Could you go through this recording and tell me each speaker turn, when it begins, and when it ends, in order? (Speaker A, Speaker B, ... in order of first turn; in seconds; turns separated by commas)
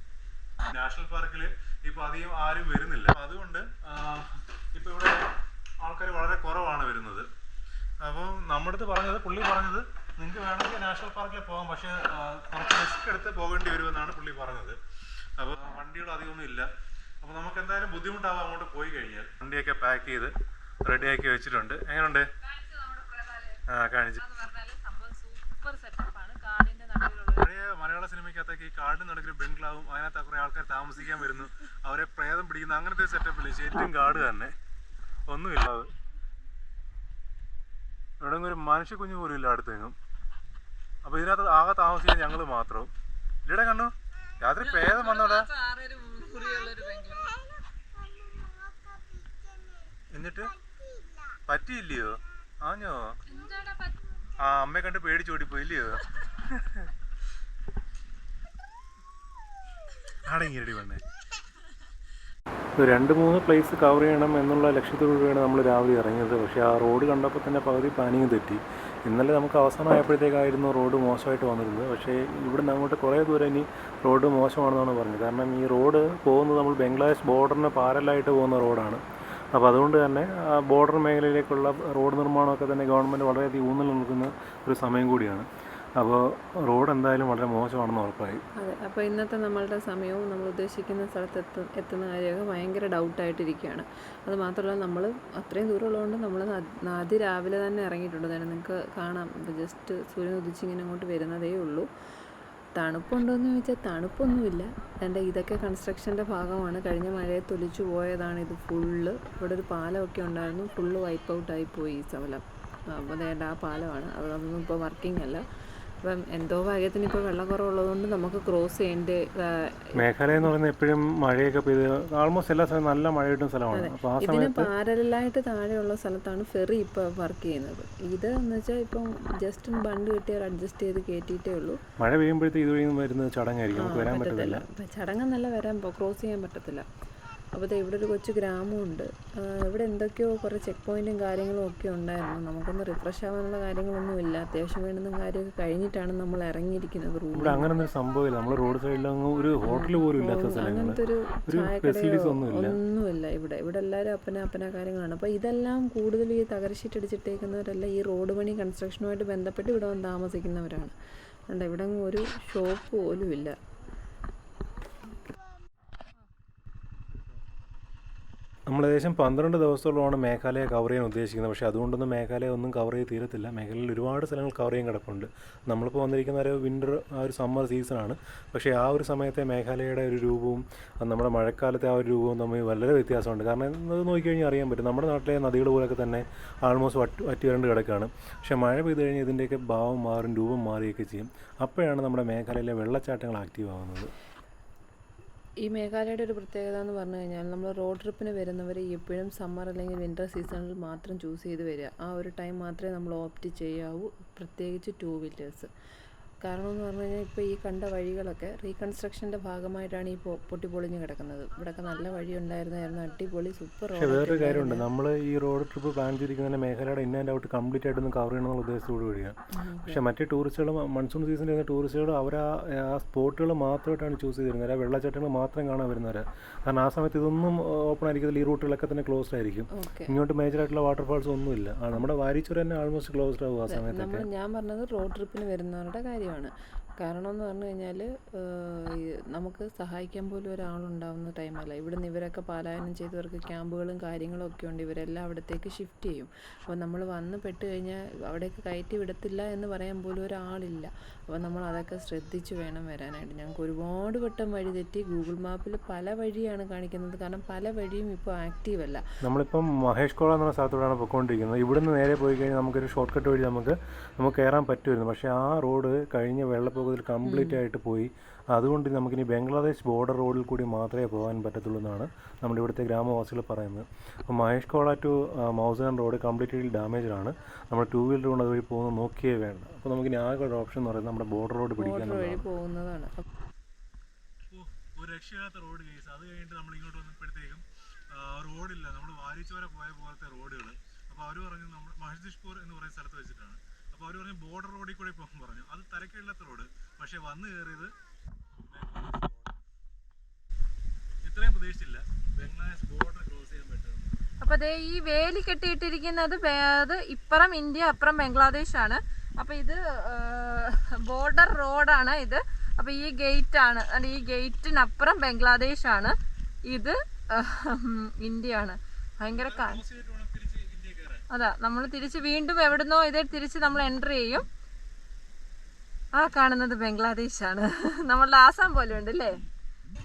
Speaker A: 0.7-7.3, Speaker A: 8.0-14.8, Speaker A: 15.3-16.7, Speaker A: 17.2-22.3, Speaker B: 22.4-23.6, Speaker A: 23.7-24.2, Speaker B: 24.2-27.5, Speaker A: 27.4-34.5, Speaker A: 35.3-35.9, Speaker A: 38.2-40.0, Speaker A: 41.0-42.9, Speaker A: 43.5-45.5, Speaker B: 44.6-47.5, Speaker A: 50.1-50.5, Speaker A: 51.5-53.2, Speaker B: 53.3-54.1, Speaker A: 54.4-56.9, Speaker A: 60.2-61.0, Speaker A: 62.8-79.0, Speaker A: 79.5-85.5, Speaker A: 86.0-88.4, Speaker C: 88.6-101.8, Speaker C: 102.8-115.5, Speaker C: 116.0-119.9, Speaker A: 120.0-124.7, Speaker C: 123.7-131.8, Speaker A: 132.0-134.6, Speaker C: 133.7-136.8, Speaker C: 137.5-147.7, Speaker A: 147.3-152.8, Speaker C: 149.6-160.9, Speaker C: 161.5-163.6, Speaker A: 168.7-194.1, Speaker C: 195.6-205.7, Speaker C: 206.4-214.8, Speaker A: 213.9-234.2, Speaker C: 219.5-220.0, Speaker C: 229.7-230.1, Speaker C: 233.7-259.0, Speaker A: 259.2-282.5, Speaker C: 267.2-267.6, Speaker C: 281.8-283.2, Speaker A: 284.5-297.9, Speaker A: 298.6-299.5, Speaker A: 301.2-304.2, Speaker B: 304.4-316.1, Speaker B: 316.7-319.8, Speaker A: 319.3-321.2, Speaker B: 321.3-324.4, Speaker B: 326.1-329.3